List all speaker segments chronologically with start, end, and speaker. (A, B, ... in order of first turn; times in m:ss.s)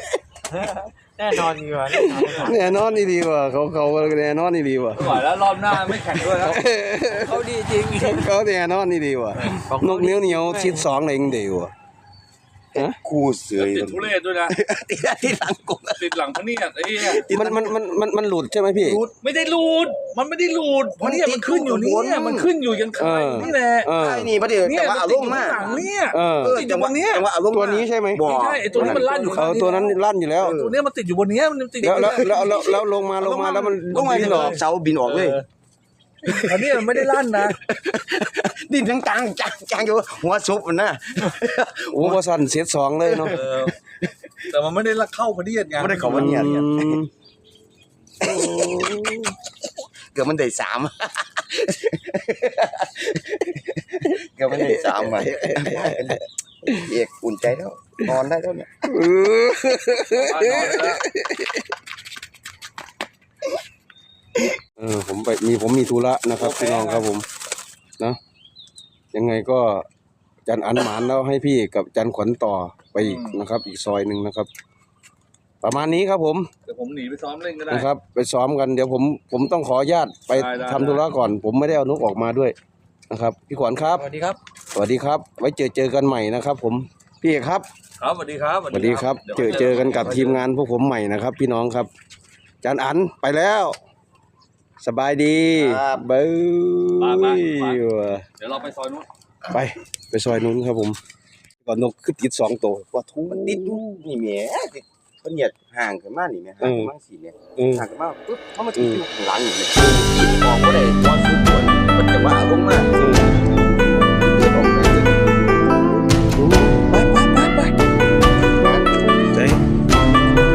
0:00.5-0:02.8 A
0:01.9-0:05.2 B
0:05.0-0:06.6 C
0:05.8-0:11.7 B
0:07.1-0:08.3 A
0:09.4-0:10.9 A
0:12.7-0:16.0 D
0:13.6-0:14.6 C
0:15.9-0:17.3 C
0:16.9-0:17.8 D
0:17.2-0:19.0 B
0:18.8-0:19.2 D
0:19.2-0:23.9 C
0:21.0-0:29.4 D
0:23.0-0:24.3 B
0:24.6-0:27.3 C
0:26.1-0:26.6 B
0:27.5-0:30.6 B
0:28.2-0:32.7 C
0:30.4-0:30.8 D
0:31.8-0:34.6 B
0:31.8-0:35.4 D
0:33.9-0:35.4 C
0:36.2-0:42.2 D
0:36.3-0:37.6 C
0:41.9-0:43.4 B
0:43.0-0:43.4 D
0:43.3-0:43.8 C
0:44.5-0:46.7 C
0:45.8-0:47.0 D
0:46.0-0:47.1 B
0:48.2-0:48.8 D
0:48.2-0:49.4 B
0:50.1-0:58.7 D
0:54.5-0:56.2 B
0:58.9-1:01.7 B
1:00.1-1:01.0 C
1:04.8-1:07.3 B
1:06.3-1:07.1 C
1:09.1-1:09.9 B
1:10.5-1:14.5 B
1:13.0-1:13.5 C
1:15.6-1:16.5 B
1:16.7-1:17.9 C
1:17.7-1:22.6 B
1:20.3-1:21.1 C
1:23.1-1:24.1 B
1:23.9-1:24.4 A
1:24.7-1:27.7 B
1:28.0-1:30.4 C
1:28.7-1:31.9 B
1:29.4-1:30.2 D
1:32.6-1:33.8 B
1:34.8-1:38.3 B
1:35.6-1:36.0 D
1:37.0-1:37.8 C
1:38.4-1:39.1 C
1:39.5-1:41.0 B
1:41.6-1:44.0 B
1:43.3-1:56.1 D
1:46.6-1:46.9 B
1:47.6-1:47.8 B
1:48.8-1:49.0 B
1:53.0-1:53.4 B
1:56.4-1:57.7 B
1:58.6-1:58.9 D
1:59.3-1:59.6 B